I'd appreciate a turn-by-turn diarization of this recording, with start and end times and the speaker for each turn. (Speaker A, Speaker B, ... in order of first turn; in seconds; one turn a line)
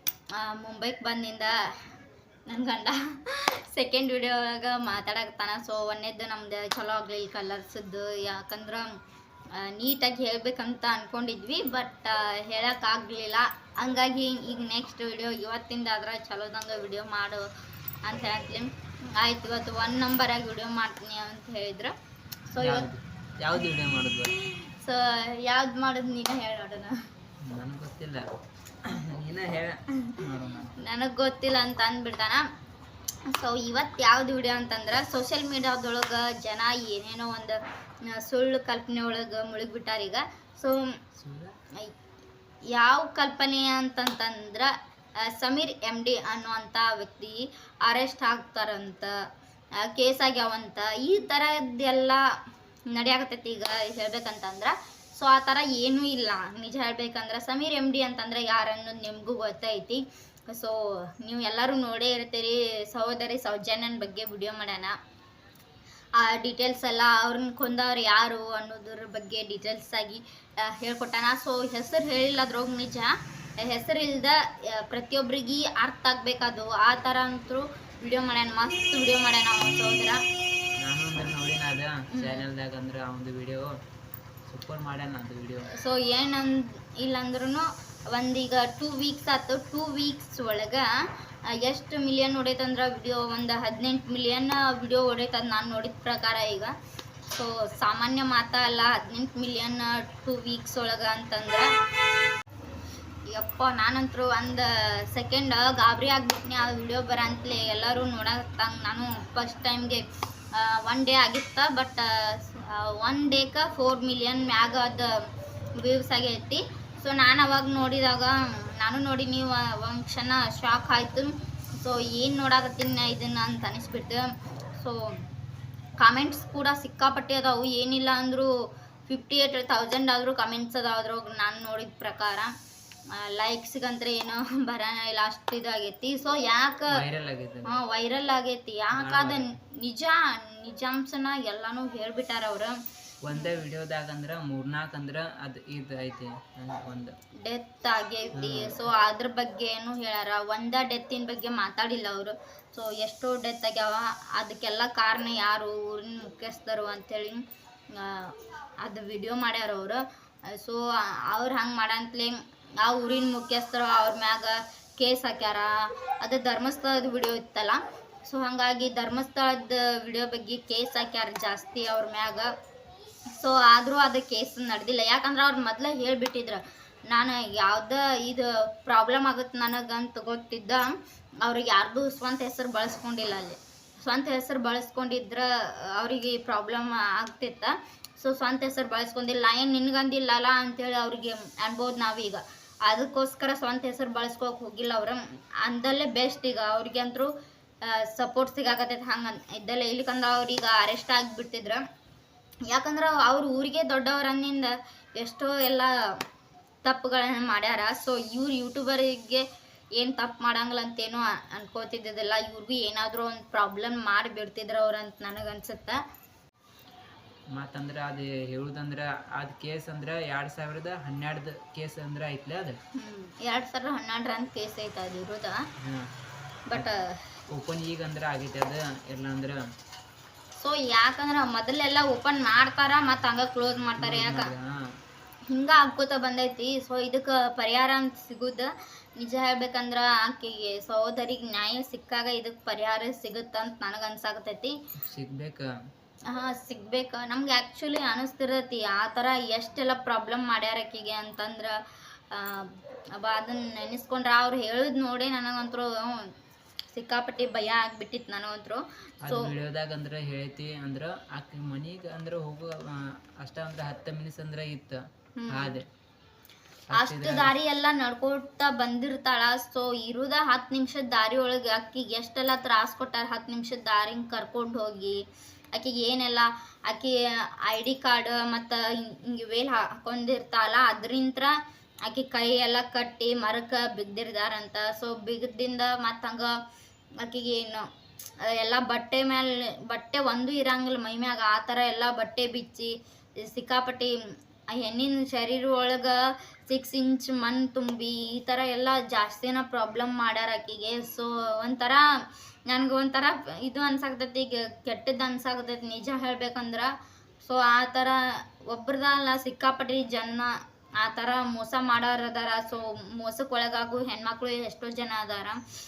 Speaker A: 0.3-1.9
Speaker A: 2.5-8.9
Speaker A: 9.5-17.5
Speaker A: 18.0-21.9
Speaker A: 22.5-22.9
Speaker B: 22.6-24.3
Speaker A: 24.2-26.9
Speaker B: 27.4-28.2
Speaker B: 28.8-30.7
Speaker A: 30.8-32.4
Speaker A: 33.3-37.6
Speaker A: 38.1-40.9
Speaker B: 41.2-41.5
Speaker A: 42.7-49.1
Speaker A: 49.8-52.2
Speaker A: 52.9-65.0
Speaker A: 66.2-80.2
Speaker B: 79.6-80.2
Speaker B: 80.8-83.7
Speaker A: 82.1-82.4
Speaker B: 84.5-85.7
Speaker A: 85.8-90.9
Speaker A: 91.5-96.7
Speaker A: 97.3-101.7
Speaker A: 103.3-115.2
Speaker A: 115.8-125.1
Speaker A: 126.0-128.5
Speaker A: 129.1-132.5
Speaker A: 133.1-137.0
Speaker B: 136.9-137.7
Speaker A: 137.7-142.8
Speaker B: 138.9-139.5
Speaker B: 143.2-147.1
Speaker A: 143.3-143.6
Speaker A: 147.4-157.4
Speaker B: 148.4-148.9
Speaker A: 157.9-172.5
Speaker A: 173.4-180.9
Speaker A: 181.4-197.3
Speaker A: 197.8-201.8
Speaker A: 202.7-205.9
Speaker A: 206.8-209.4
Speaker A: 210.0-216.0
Speaker B: 217.5-222.8
Speaker A: 222.9-225.6
Speaker B: 225.8-226.1
Speaker A: 226.7-227.1
Speaker B: 227.5-229.6
Speaker A: 230.6-234.5
Speaker B: 234.0-234.8
Speaker A: 235.5-244.7
Speaker B: 245.0-245.7
Speaker A: 246.3-251.8
Speaker A: 252.3-256.3
Speaker A: 256.9-259.5
Speaker B: 259.2-265.9
Speaker A: 265.4-265.8
Speaker B: 266.9-267.5
Speaker A: 266.9-275.2
Speaker A: 275.7-281.5
Speaker A: 282.1-286.6
Speaker A: 287.2-287.9
Speaker A: 288.4-294.1
Speaker A: 294.7-302.0
Speaker A: 302.7-315.6